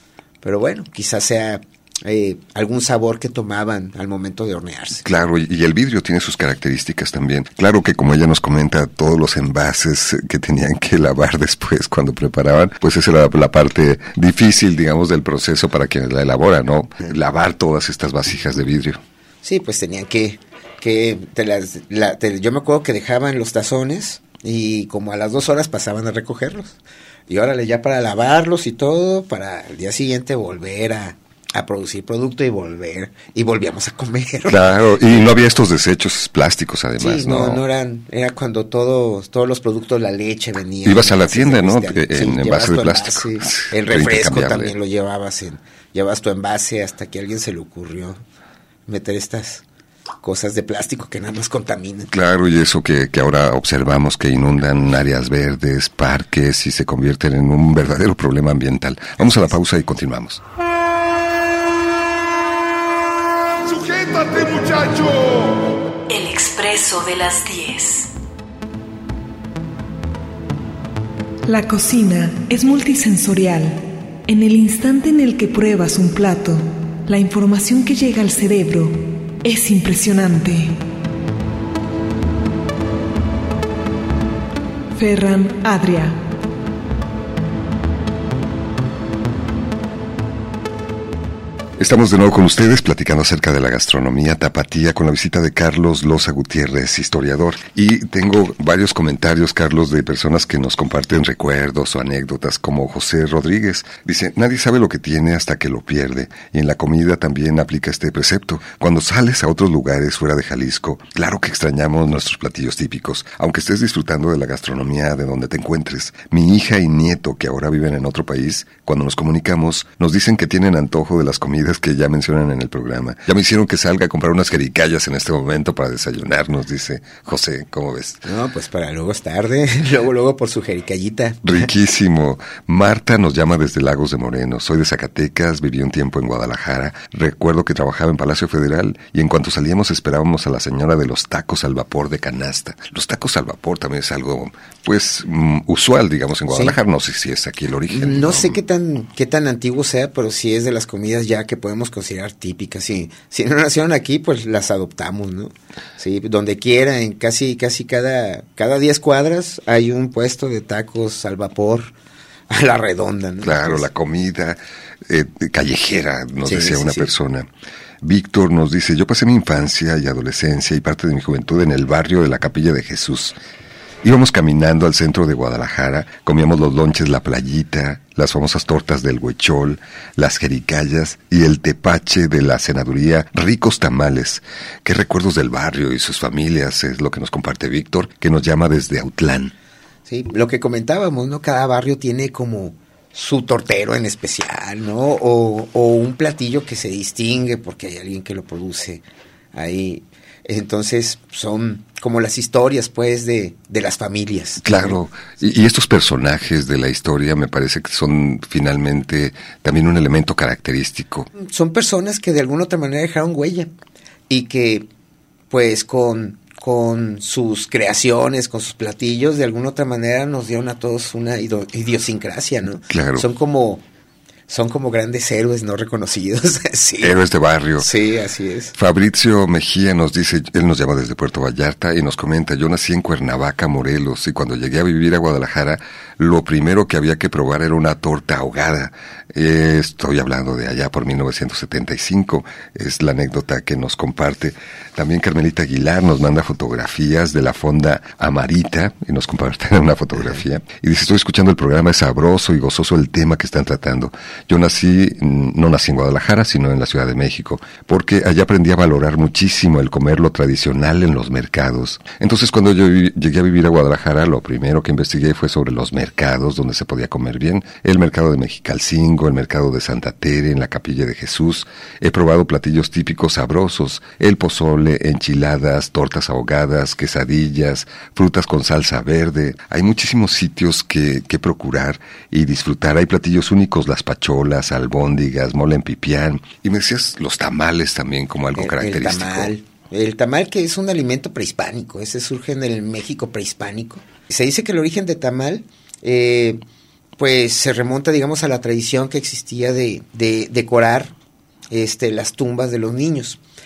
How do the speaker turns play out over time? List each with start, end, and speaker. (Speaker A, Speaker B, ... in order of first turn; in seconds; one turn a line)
Speaker A: 0.4-5.0
Speaker B: 5.0-19.0
Speaker A: 19.4-35.4
Speaker B: 34.5-37.6
Speaker A: 37.0-48.2
Speaker B: 40.8-44.7
Speaker A: 48.9-49.6
Speaker A: 50.2-52.1
Speaker B: 52.1-60.4
Speaker A: 59.2-59.6
Speaker C: 63.6-65.6
Speaker D: 66.1-68.1
Speaker E: 71.5-80.8
Speaker E: 84.9-86.2
Speaker B: 91.8-128.2
Speaker A: 128.2-131.7
Speaker B: 131.4-148.6
Speaker A: 146.5-146.8
Speaker A: 147.9-161.9
Speaker A: 162.5-163.8
Speaker B: 163.4-167.5
Speaker A: 166.4-167.1
Speaker B: 168.0-173.3
Speaker B: 174.0-189.5
Speaker A: 190.1-199.0
Speaker A: 199.5-205.0
Speaker B: 204.6-211.3
Speaker A: 211.3-213.7
Speaker A: 214.3-214.9
Speaker A: 215.5-223.8
Speaker B: 222.9-223.2
Speaker A: 224.5-227.1
Speaker B: 227.0-227.9
Speaker A: 227.8-228.7
Speaker B: 228.8-289.5
Speaker A: 288.6-296.6
Speaker A: 297.2-301.1
Speaker A: 301.7-303.4